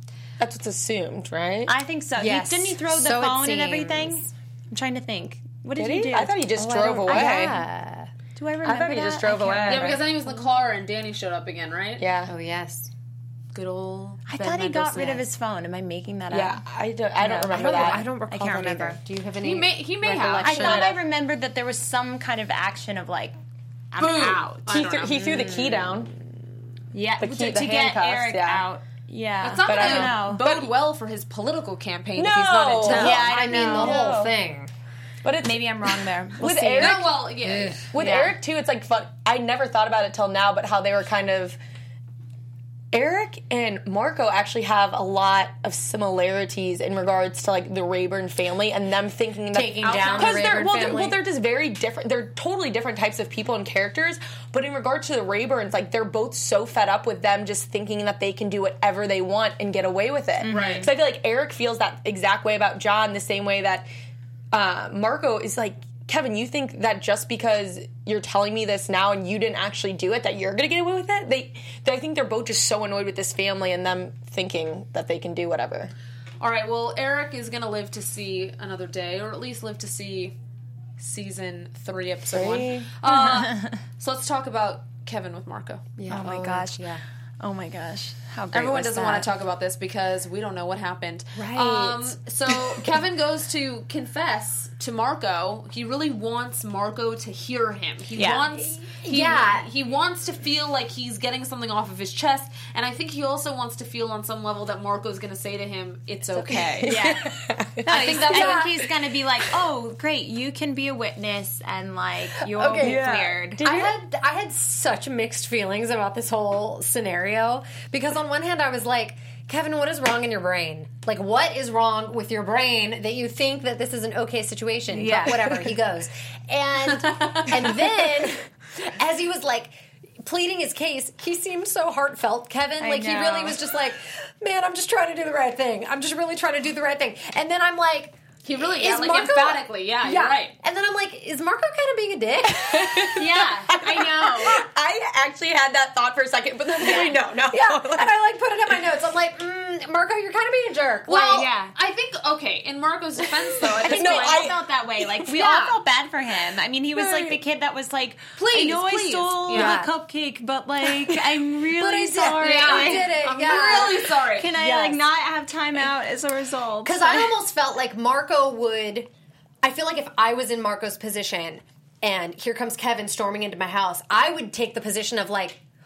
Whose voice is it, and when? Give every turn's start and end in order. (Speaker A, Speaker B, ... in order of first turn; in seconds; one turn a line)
Speaker A: 0.4-1.7
Speaker B: 1.7-7.5
Speaker C: 2.1-4.3
Speaker A: 5.8-7.5
Speaker C: 6.6-8.1
Speaker B: 8.3-10.0
Speaker A: 8.6-10.0
Speaker D: 9.7-12.0
Speaker A: 12.0-12.3
Speaker C: 12.3-12.9
Speaker D: 13.5-15.2
Speaker B: 14.3-16.6
Speaker A: 16.3-18.0
Speaker B: 17.2-19.0
Speaker C: 17.5-20.9
Speaker D: 19.4-20.9
Speaker B: 20.4-23.3
Speaker B: 23.9-24.6
Speaker D: 24.0-25.2
Speaker A: 24.7-26.1
Speaker C: 25.1-26.0
Speaker B: 26.9-30.6
Speaker A: 27.2-28.6
Speaker D: 29.4-33.2
Speaker A: 29.6-30.7
Speaker A: 32.1-34.3
Speaker B: 32.8-34.1
Speaker C: 32.9-34.7
Speaker A: 35.2-37.1
Speaker B: 35.4-37.0
Speaker D: 36.8-38.3
Speaker C: 37.4-38.0
Speaker A: 37.9-41.6
Speaker A: 42.9-63.9
Speaker C: 49.5-51.2
Speaker D: 49.8-50.6
Speaker B: 60.4-60.9
Speaker D: 60.5-60.9
Speaker A: 64.5-75.9
Speaker D: 76.4-80.3
Speaker D: 81.0-85.9
Speaker A: 82.3-82.9
Speaker B: 83.0-83.7
Speaker C: 86.0-87.0
Speaker B: 86.1-89.3
Speaker D: 88.5-107.0
Speaker C: 91.3-92.0
Speaker B: 98.2-98.5
Speaker C: 98.8-99.7
Speaker A: 106.3-108.9
Speaker B: 106.9-107.3
Speaker B: 107.8-113.9
Speaker D: 107.9-108.7
Speaker A: 112.4-113.9
Speaker C: 113.6-143.3
Speaker B: 124.9-125.6
Speaker D: 127.0-127.5
Speaker B: 132.8-133.7
Speaker D: 138.4-140.5
Speaker A: 142.5-148.1
Speaker B: 143.1-144.7
Speaker C: 146.8-151.5
Speaker B: 146.8-147.1
Speaker D: 151.1-154.6
Speaker B: 151.3-151.7
Speaker A: 153.6-155.4
Speaker B: 153.8-163.6
Speaker C: 155.4-155.7
Speaker A: 156.9-157.4
Speaker D: 158.3-159.8
Speaker C: 159.5-159.9
Speaker C: 161.7-165.0
Speaker D: 162.4-164.5
Speaker B: 164.3-167.3
Speaker C: 166.8-169.1
Speaker C: 169.6-175.6